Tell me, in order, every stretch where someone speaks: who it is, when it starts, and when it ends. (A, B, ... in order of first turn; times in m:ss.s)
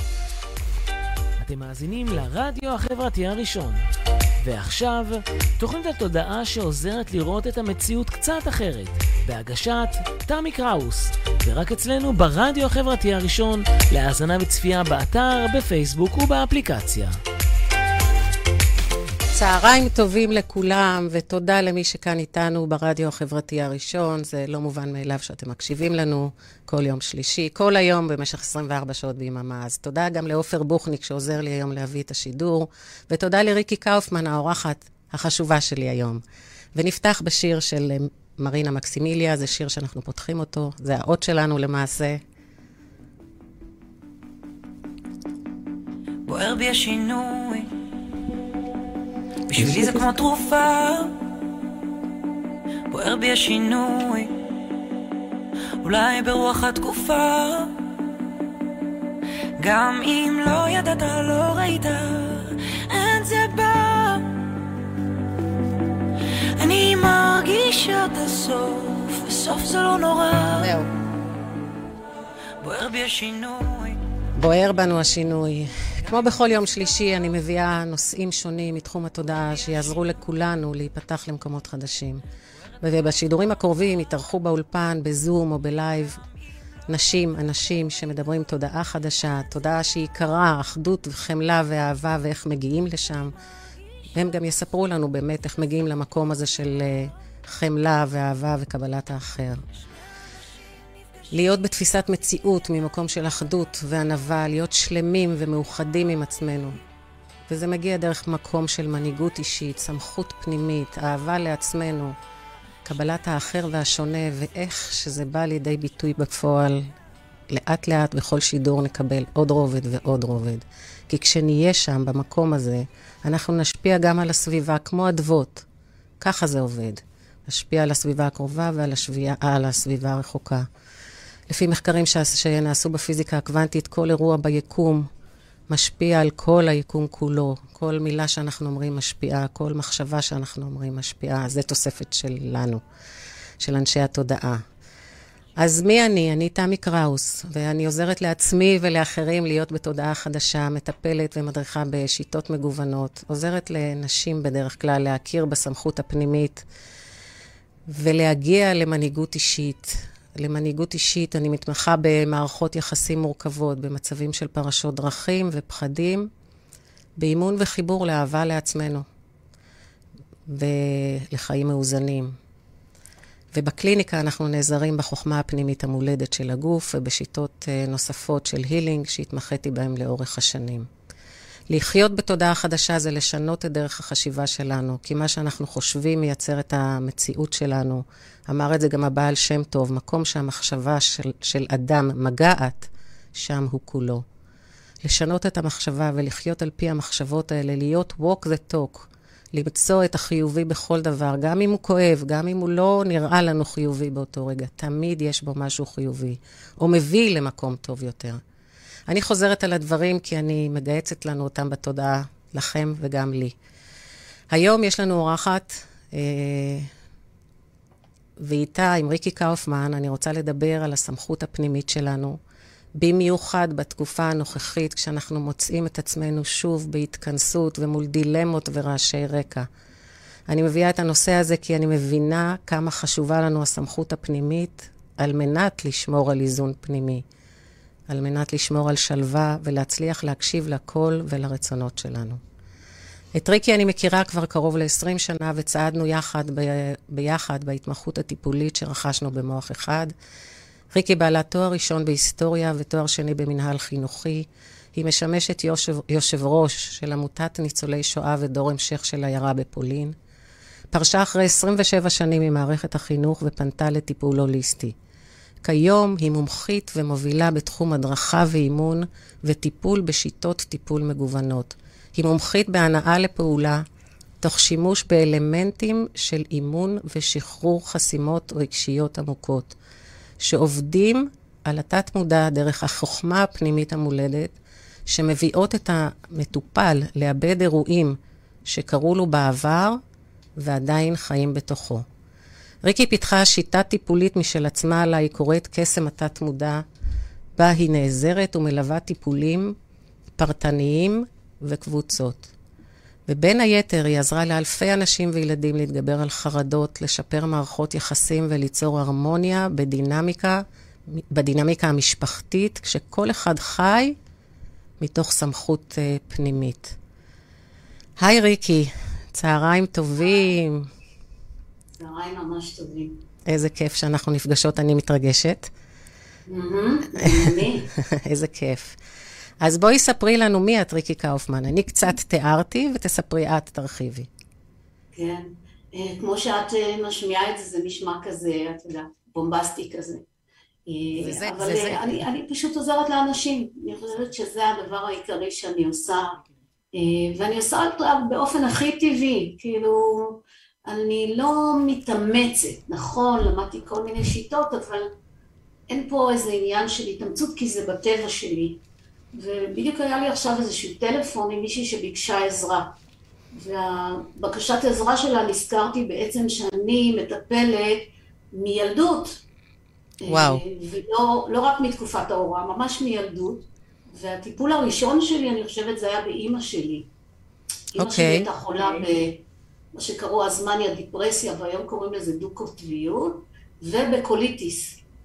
0:01.4-0:03.8 A
0:04.4-0:17.1 A
0:19.3-0:36.2 B
0:36.7-0:42.2 B
0:46.3-0:47.7 C
0:49.5-0:51.2 C
0:52.9-0:54.4 C
0:55.8-0:57.7 C
0:59.6-1:04.3 C
1:06.6-1:10.8 C
1:10.6-1:10.9 B
1:12.6-1:14.0 C
1:14.4-1:22.2 B
1:22.8-1:26.2 B
1:26.9-1:33.4 B
1:34.1-1:39.6 B
1:41.3-1:46.8 B
1:47.5-1:52.2 B
1:52.8-1:56.8 B
1:57.5-2:05.7 B
2:06.2-2:10.7 B
2:11.5-2:15.1 B
2:15.7-2:22.8 B
2:23.6-2:24.6 B
2:25.6-2:36.6 B
2:37.9-2:46.3 B
2:47.2-2:49.1 B
2:50.5-2:52.4 B
2:53.5-3:00.9 B
3:01.7-3:14.2 B
3:15.0-3:28.4 B
3:29.1-3:33.6 B
3:34.5-3:36.9 B
3:38.4-3:42.4 B
3:43.0-3:49.7 B
3:50.5-3:57.2 B
3:58.1-4:02.4 B
4:03.4-4:10.1 B
4:10.9-4:20.2 B
4:20.9-4:25.0 B
4:25.6-4:33.8 B
4:34.4-4:39.8 B
4:40.4-4:44.6 B
4:45.1-4:50.0 B
4:50.6-4:52.0 B
4:52.8-4:56.8 B
4:57.6-4:59.8 B
5:00.4-5:02.5 B
5:03.3-5:10.7 B
5:11.3-5:14.2 B
5:15.0-5:17.0 B
5:18.2-5:20.9 B
5:22.0-5:23.2 D
5:23.5-5:25.7 B
5:26.5-5:27.9 D
5:27.2-5:29.0 B
5:29.6-5:34.3 B
5:35.2-5:40.2 D
5:40.9-5:46.4 D
5:41.2-5:42.2 B
5:46.9-5:55.1 D
5:55.9-5:58.8 D
5:59.3-6:02.9 D
6:03.5-6:09.4 D
6:10.2-6:17.1 D
6:10.3-6:10.6 B
6:18.0-6:19.4 D
6:18.0-6:18.5 B
6:20.0-6:25.0 D